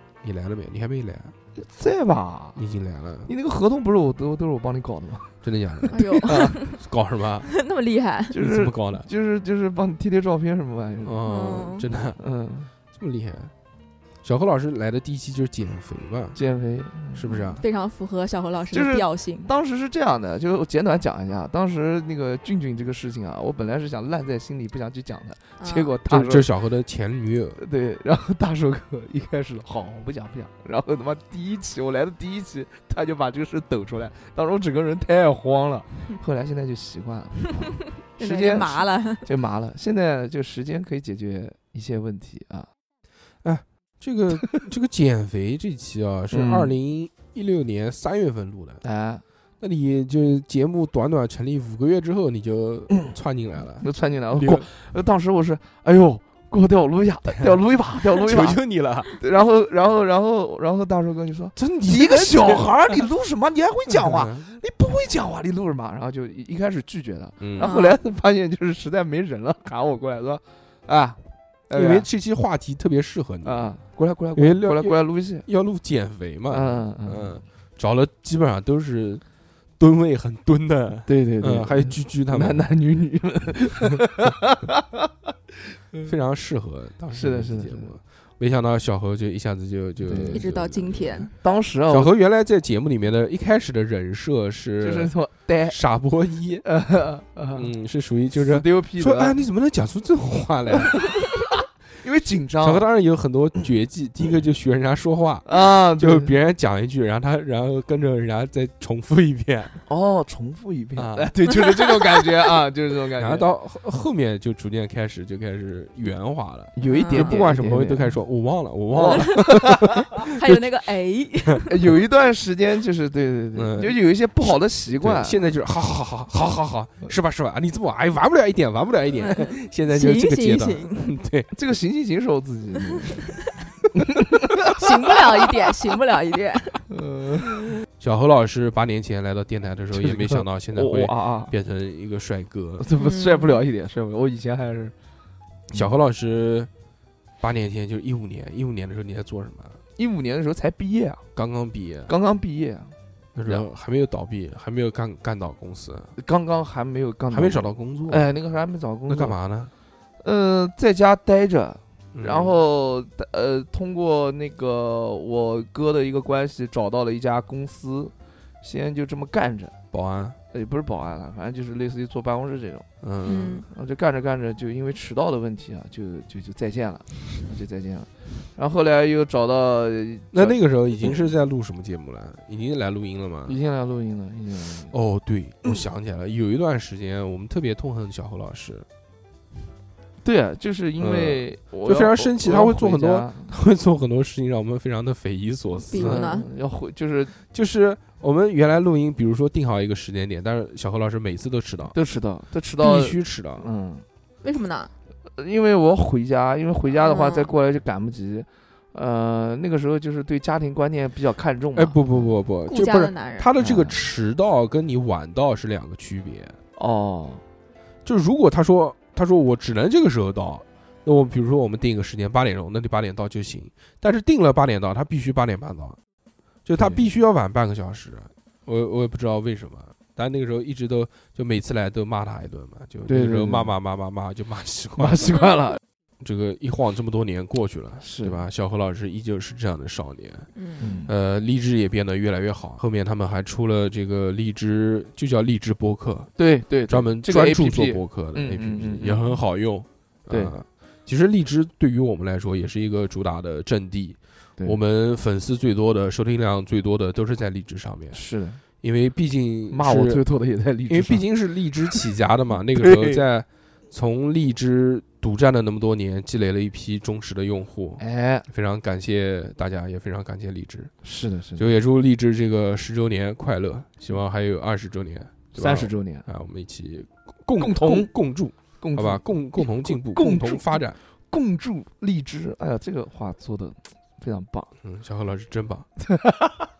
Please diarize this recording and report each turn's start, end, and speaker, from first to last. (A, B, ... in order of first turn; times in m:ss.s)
0:00.2-0:01.3 A
0:01.6-0:02.6 B
0:02.6-0:03.3 A
0:03.2-0:05.3 B
0:05.4-0:07.5 A
0:05.9-0:06.6 B
0:05.9-0:06.8 C
0:07.4-0:08.4 C
0:08.3-0:11.2 B
0:08.3-0:09.1 A
0:11.0-0:12.2 A
0:11.2-0:11.9 C
0:12.2-0:12.7 B
0:12.9-0:13.5 A
0:14.2-0:16.4 A
0:16.3-0:17.3 B
0:17.1-0:17.6 A
0:17.3-0:19.5 C
0:18.7-0:26.5 B
0:25.6-0:25.9 C
0:26.1-0:27.6 A
0:27.6-0:42.7 B
0:38.1-0:39.3 C
0:43.4-0:48.8 A
0:46.3-0:46.8 B
0:48.8-0:49.2 B
0:49.6-0:54.7 A
0:53.8-1:12.1 B
0:58.2-0:59.1 A
1:01.6-1:02.7 A
1:04.0-1:04.5 A
1:07.4-1:07.7 A
1:07.6-1:08.0 C
1:11.7-1:13.7 A
1:13.4-1:15.4 B
1:14.3-1:19.2 A
1:16.5-1:17.4 B
1:19.8-1:22.6 A
1:21.1-1:24.8 B
1:26.0-1:31.3 A
1:27.1-1:28.0 B
1:30.0-1:30.4 B
1:30.3-1:31.3 C
1:31.4-1:32.1 B
1:31.9-1:35.1 A
1:34.8-1:35.8 B
1:35.7-1:36.6 A
1:36.6-1:37.7 B
1:37.5-1:41.0 A
1:38.3-1:39.4 B
1:42.0-1:42.9 B
1:42.6-1:49.8 A
1:45.4-1:46.3 B
1:49.9-1:53.5 B
1:51.0-1:51.3 A
1:53.2-2:00.6 A
1:56.7-1:58.2 B
1:56.9-1:57.4 C
1:58.9-2:00.0 B
1:59.1-1:59.3 C
2:00.2-2:01.7 C
2:01.7-2:05.4 B
2:03.5-2:04.0 A
2:04.5-2:11.5 A
2:09.2-2:11.2 C
2:11.5-2:13.4 B
2:13.9-2:14.5 B
2:14.8-2:16.9 C
2:16.9-2:17.8 B
2:18.0-2:22.8 A
2:19.9-2:21.5 B
2:22.8-2:24.9 B
2:23.0-2:23.6 C
2:25.7-2:26.7 A
2:27.4-2:29.8 A
2:30.0-2:31.2 B
2:31.3-2:32.1 A
2:32.1-2:33.6 B
2:33.3-2:36.1 A
2:36.2-2:39.4 B
2:37.3-2:38.3 A
2:39.1-2:39.7 A
2:40.2-2:49.8 B
2:42.1-2:42.6 A
2:49.9-2:50.4 A
2:50.5-2:52.8 B
2:53.0-2:53.6 A
2:53.2-2:53.6 C
2:53.7-3:01.2 B
3:00.3-3:03.6 A
3:03.4-3:04.9 B
3:04.9-3:08.8 A
3:10.2-3:13.5 B
3:11.0-3:16.3 A
3:15.8-3:16.5 C
3:15.9-3:17.3 B
3:17.4-3:22.0 A
3:21.9-3:24.0 B
3:22.8-3:23.7 A
3:24.4-3:24.9 C
3:25.2-3:32.3 B
3:26.9-3:27.5 C
3:31.8-3:36.6 A
3:32.6-3:33.5 C
3:33.6-3:34.0 B
3:36.8-3:37.4 B
3:38.0-3:46.0 A
3:46.6-3:55.3 A
3:46.8-3:47.1 B
3:53.1-3:53.8 B
3:55.0-3:55.8 B
3:56.2-4:00.5 A
3:58.0-3:58.4 B
4:00.5-4:01.0 C
4:00.8-4:01.1 B
4:01.0-4:06.3 A
4:06.4-4:09.4 B
4:06.9-4:18.2 A
4:10.3-4:10.6 B
4:18.1-4:18.6 B
4:18.8-4:20.2 A
4:19.7-4:21.3 B
4:20.9-4:30.9 A
4:22.8-4:23.2 B
4:28.0-4:28.5 B
4:31.0-4:31.6 B
4:31.6-4:41.0 A
4:35.5-4:36.2 B
4:37.6-4:38.1 B
4:38.8-4:44.7 B
4:44.8-4:45.9 A
4:46.2-4:46.6 B